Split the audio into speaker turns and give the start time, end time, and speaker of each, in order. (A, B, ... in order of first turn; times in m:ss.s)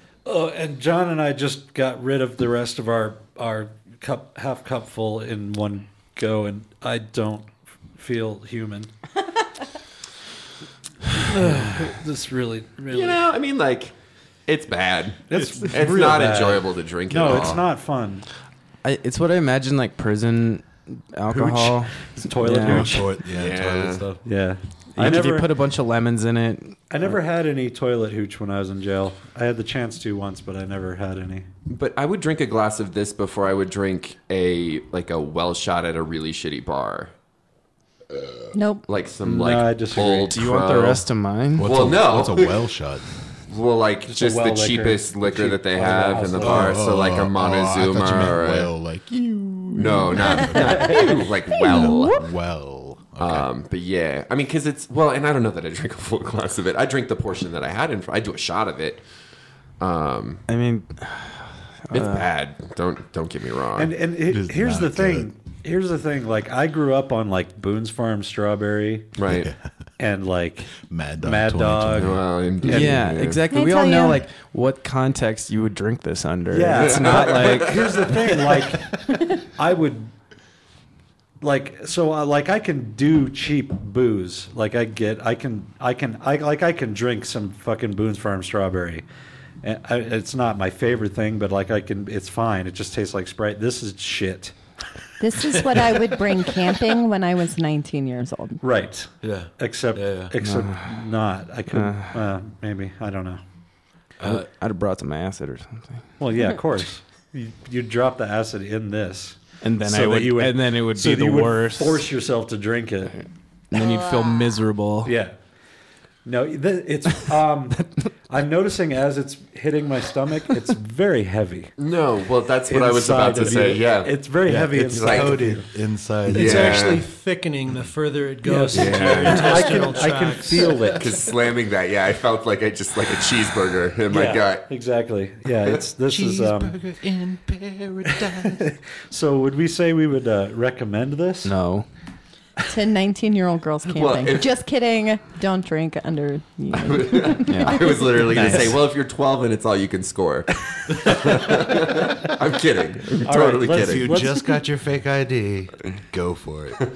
0:00.3-0:08.9 A
0:11.2-0:13.2 A
0:12.9-0:13.9 B
0:14.4-0:17.6 B
0:15.3-0:18.3 A
0:18.8-0:22.9 C
0:21.3-0:23.2 A
0:22.6-0:24.2 D
0:23.3-0:24.1 B
0:24.2-0:25.5 A
0:24.9-0:27.1 C
0:26.9-0:31.5 A
0:31.7-0:37.1 B
0:38.5-0:38.8 E
0:38.9-0:41.0 B
0:39.2-0:40.4 A
0:40.3-0:41.9 C
0:41.6-0:43.1 D
0:41.6-0:42.6 B
0:43.5-0:48.7 B
0:44.1-0:46.8 A
0:46.4-0:51.0 D
0:49.8-0:52.3 B
0:50.5-0:51.1 A
0:51.6-0:53.5 D
0:53.2-0:59.0 B
0:59.8-1:00.4 B
1:00.5-1:02.3 C
1:01.9-1:03.9 B
1:03.8-1:09.1 A
1:04.3-1:05.3 D
1:09.2-1:09.5 B
1:09.3-1:09.6 D
1:10.0-1:12.2 A
1:10.8-1:12.2 D
1:11.9-1:13.4 B
1:12.6-1:18.3 C
1:13.5-1:14.2 E
1:16.5-1:20.1 A
1:16.9-1:17.6 B
1:21.4-1:29.0 A
1:29.6-1:34.5 A
1:35.2-1:38.6 E
1:38.6-1:43.4 A
1:39.2-1:40.3 D
1:40.4-1:40.9 C
1:41.7-1:42.2 C
1:44.2-1:44.5 D
1:44.2-1:46.0 C
1:46.2-1:53.2 A
1:49.6-1:52.0 C
1:53.7-1:55.2 C
1:53.8-1:54.5 E
1:55.0-1:55.4 A
1:56.2-2:01.7 A
2:01.8-2:04.2 B
2:02.7-2:05.7 A
2:04.4-2:07.0 D
2:04.9-2:05.5 B
2:06.3-2:11.1 F
2:06.3-2:07.1 B
2:08.4-2:11.1 A
2:08.7-2:10.2 B
2:10.8-2:14.6 B
2:14.1-2:16.8 A
2:16.0-2:18.7 D
2:18.1-2:21.5 A
2:21.4-2:21.9 C
2:22.7-2:28.1 E
2:23.9-2:24.4 B
2:26.7-2:30.5 B
2:27.4-2:28.8 C
2:28.4-2:28.7 A
2:31.1-2:34.1 B
2:33.2-2:34.6 A
2:33.8-2:36.8 D